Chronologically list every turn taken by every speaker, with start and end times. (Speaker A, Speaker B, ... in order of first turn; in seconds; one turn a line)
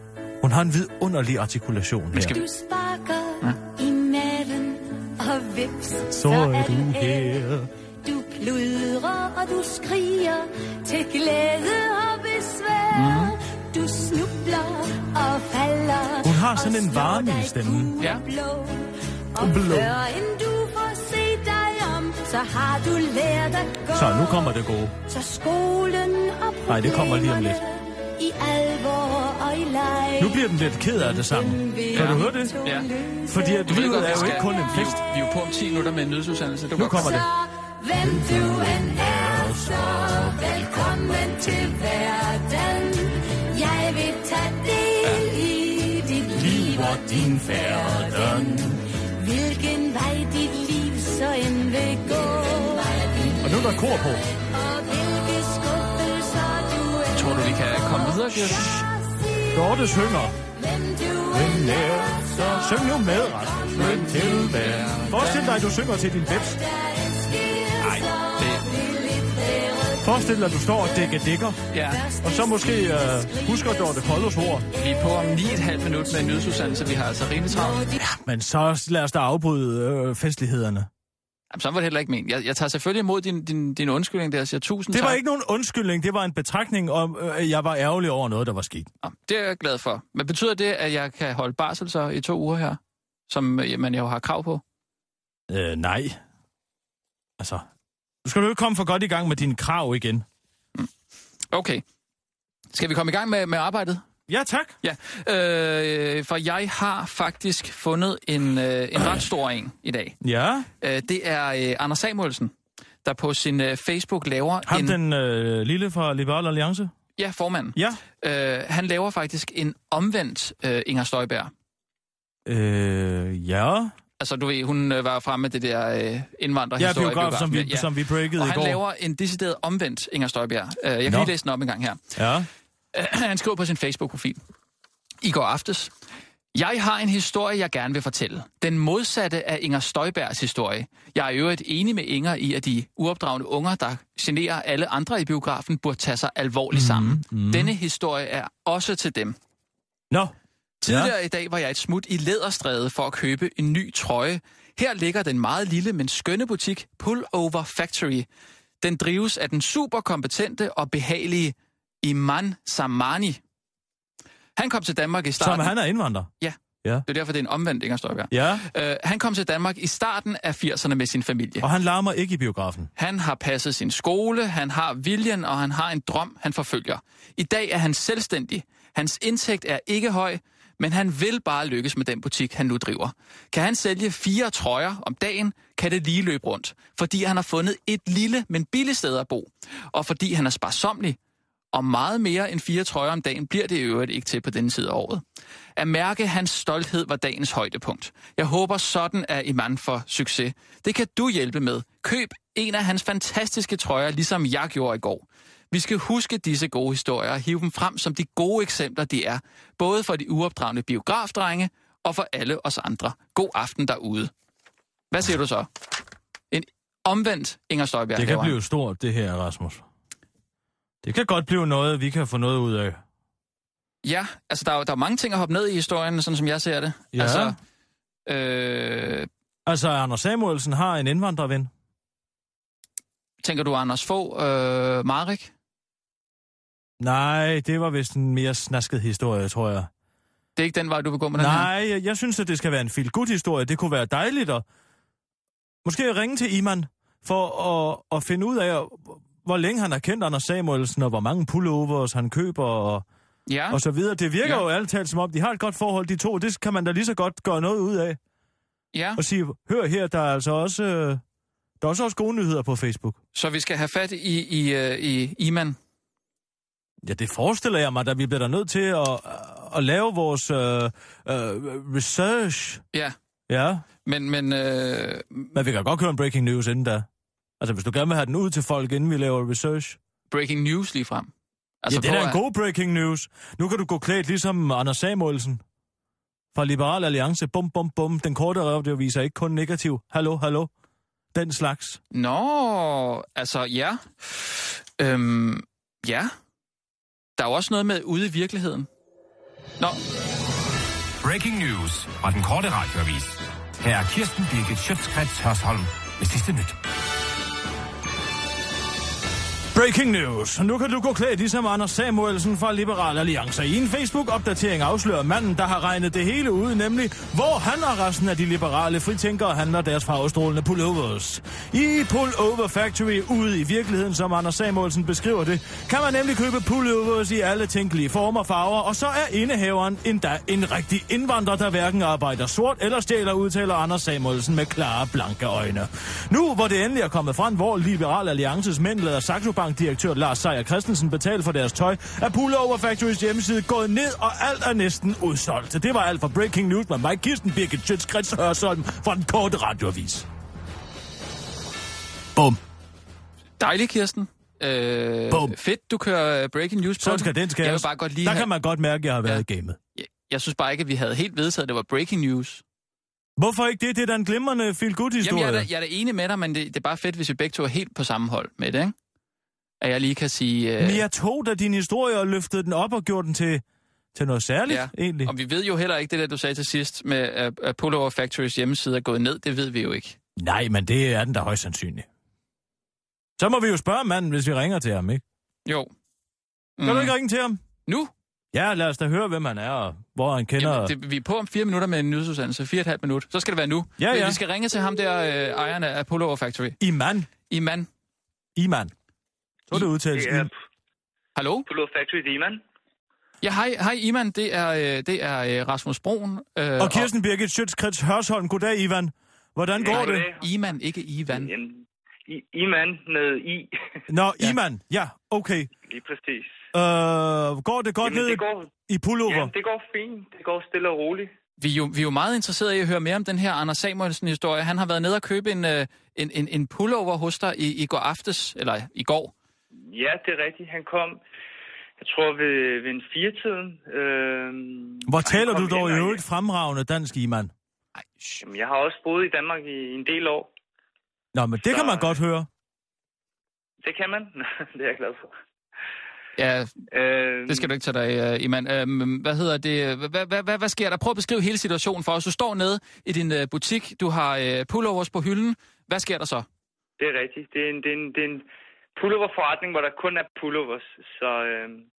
Speaker A: 0.4-2.4
Speaker B: 2.1-2.4
Speaker C: 2.3-7.4
Speaker A: 6.1-7.7
Speaker C: 8.0-24.5
Speaker B: 12.9-13.3
Speaker A: 16.2-17.9
Speaker A: 19.4-20.0
Speaker A: 23.9-24.9
Speaker C: 25.1-30.4
Speaker A: 26.7-27.6
Speaker A: 30.2-32.5
Speaker C: 31.1-34.9
Speaker B: 31.9-32.9
Speaker A: 33.3-35.0
Speaker B: 33.7-37.1
Speaker A: 36.8-37.3
Speaker C: 36.8-53.5
Speaker A: 38.0-41.8
Speaker B: 45.0-45.3
Speaker A: 46.3-48.8
Speaker A: 53.4-54.2
Speaker C: 54.3-65.7
Speaker B: 57.1-58.7
Speaker A: 58.5-58.9
Speaker A: 59.5-60.4
Speaker A: 61.3-66.6
Speaker B: 63.8-65.5
Speaker C: 66.3-70.3
Speaker B: 67.8-68.7
Speaker A: 70.0-71.6
Speaker B: 71.7-72.0
Speaker C: 71.9-76.8
Speaker A: 72.2-74.7
Speaker B: 74.8-77.8
Speaker C: 77.5-78.0
Speaker A: 78.0-80.9
Speaker B: 81.5-85.2
Speaker A: 84.9-88.9
Speaker B: 89.0-94.6
Speaker A: 95.5-96.2
Speaker A: 97.4-97.7
Speaker A: 98.2-100.2
Speaker B: 101.5-101.8
Speaker B: 102.7-104.0
Speaker A: 104.3-104.8
Speaker B: 104.8-110.2
Speaker A: 110.2-110.7
Speaker B: 110.8-112.5
Speaker B: 113.0-115.0
Speaker A: 114.7-116.9
Speaker B: 117.2-121.5
Speaker A: 117.8-118.0
Speaker A: 122.5-123.9
Speaker B: 124.2-132.1
Speaker A: 126.8-128.8
Speaker A: 131.1-131.3
Speaker A: 132.2-132.5
Speaker B: 132.9-134.4
Speaker B: 135.2-135.9
Speaker B: 136.5-149.4
Speaker A: 146.7-147.7
Speaker B: 150.8-158.3
Speaker A: 150.8-151.1
Speaker B: 158.8-163.4
Speaker B: 164.6-165.8
Speaker A: 165.4-166.3
Speaker B: 166.4-171.7
Speaker A: 168.3-168.7
Speaker A: 171.6-172.9
Speaker B: 173.0-191.2
Speaker B: 191.7-195.2
Speaker B: 195.8-214.3
Speaker B: 215.1-215.7
Speaker B: 216.5-218.6
Speaker A: 218.2-219.8
Speaker A: 221.0-223.0
Speaker B: 224.0-227.6
Speaker A: 227.1-227.6
Speaker B: 228.3-229.3
Speaker A: 229.7-231.7
Speaker B: 233.4-235.5
Speaker A: 237.0-239.9
Speaker B: 240.6-241.7
Speaker A: 241.4-244.6
Speaker A: 245.8-253.1
Speaker B: 253.5-253.8
Speaker A: 253.7-258.2
Speaker B: 254.4-254.7
Speaker B: 258.9-259.2
Speaker A: 259.2-261.2
Speaker A: 261.8-263.2
Speaker B: 263.3-265.8
Speaker A: 267.0-272.8
Speaker A: 273.5-273.9
Speaker B: 274.1-275.5
Speaker A: 275.5-277.1
Speaker A: 277.6-280.0
Speaker B: 280.3-281.3
Speaker B: 281.8-282.4
Speaker A: 281.9-285.6
Speaker A: 286.5-290.7
Speaker A: 291.3-292.0
Speaker B: 292.1-296.3
Speaker B: 297.4-298.9
Speaker D: 301.2-306.8
Speaker A: 309.7-350.3
Speaker B: 353.6-358.5
Speaker A: 355.3-355.6
Speaker A: 357.0-359.8
Speaker B: 360.0-362.6
Speaker A: 363.4-365.7
Speaker B: 365.2-368.9
Speaker B: 369.8-371.0
Speaker A: 370.8-373.6
Speaker A: 374.1-375.3
Speaker B: 374.7-380.2
Speaker A: 380.4-382.1
Speaker A: 383.4-385.2
Speaker B: 386.8-387.1
Speaker A: 386.8-387.6
Speaker A: 388.5-390.9
Speaker B: 390.6-396.8
Speaker A: 394.0-394.4
Speaker A: 396.8-397.3
Speaker B: 397.5-397.9
Speaker A: 398.6-398.9
Speaker A: 399.7-400.5
Speaker E: 400.1-400.5
Speaker B: 401.4-401.7
Speaker E: 401.7-402.6
Speaker B: 403.4-407.1
Speaker A: 406.8-410.3
Speaker E: 409.8-410.5
Speaker B: 409.9-411.5
Speaker E: 411.3-413.8
Speaker A: 414.1-415.7
Speaker E: 415.9-416.6
Speaker A: 416.7-419.5
Speaker E: 418.0-418.7
Speaker E: 419.3-421.3
Speaker B: 421.6-429.3
Speaker E: 429.8-431.2
Speaker E: 432.0-436.2
Speaker A: 435.1-437.5
Speaker B: 438.0-438.4
Speaker E: 438.4-440.5
Speaker A: 441.3-442.5
Speaker E: 441.6-442.2
Speaker E: 443.8-445.3
Speaker B: 446.4-446.8
Speaker E: 446.9-447.7
Speaker B: 447.5-456.5
Speaker E: 457.0-461.9